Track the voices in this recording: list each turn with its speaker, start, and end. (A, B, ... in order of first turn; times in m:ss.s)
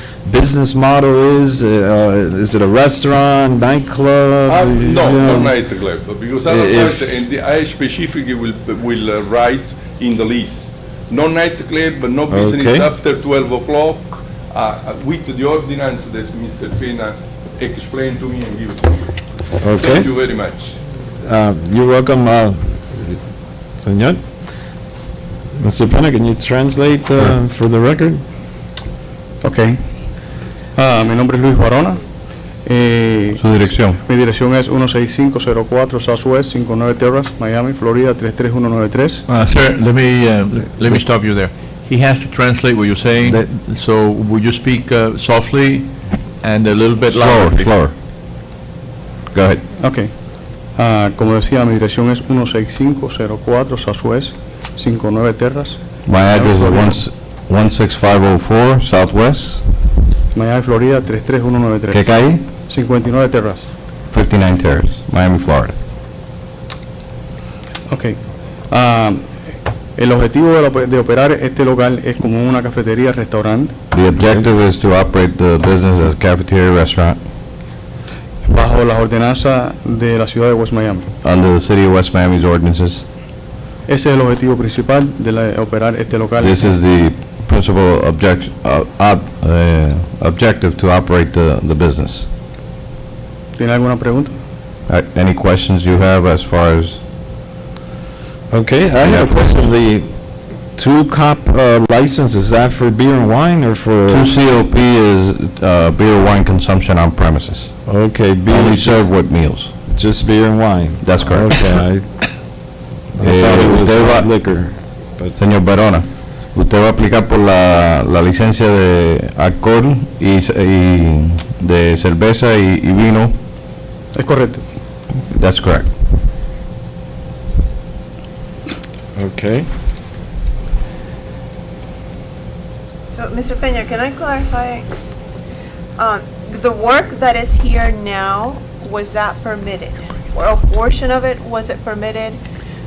0:00.3-0:05.6 A
0:04.5-0:19.0 B
0:06.4-0:07.1 A
0:12.3-0:12.9 A
0:19.6-0:20.1 A
0:19.7-0:20.8 B
0:21.2-0:23.2 A
0:23.8-0:24.2 A
0:25.6-0:28.2 A
0:29.4-0:29.8 C
0:30.7-0:39.2 C
0:33.4-0:34.0 D
0:39.3-0:47.9 E
0:47.1-0:47.9 D
0:49.3-0:49.6 D
0:49.8-0:57.0 C
0:56.1-0:59.6 D
1:00.3-1:03.7 C
1:01.9-1:02.4 D
1:04.1-1:05.7 D
1:07.9-1:09.4 C
1:10.0-1:13.7 C
1:13.9-1:17.2 D
1:18.4-1:21.1 C
1:21.2-1:23.0 D
1:23.9-1:26.8 C
1:26.4-1:32.3 D
1:33.6-1:34.4 C
1:34.9-1:37.0 D
1:38.5-1:40.1 A
1:39.0-1:39.5 D
1:40.8-1:44.4 A
1:44.1-1:47.7 D
1:47.9-1:49.2 A
1:48.5-1:49.7 D
1:49.9-1:52.0 A
1:51.0-1:51.6 D
1:53.1-1:55.4 A
1:53.2-1:54.3 D
1:55.4-2:03.3 D
2:04.1-2:04.6 C
2:05.3-2:05.9 D
2:09.2-2:09.7 A
2:13.1-2:14.9 F
2:16.0-2:22.4 F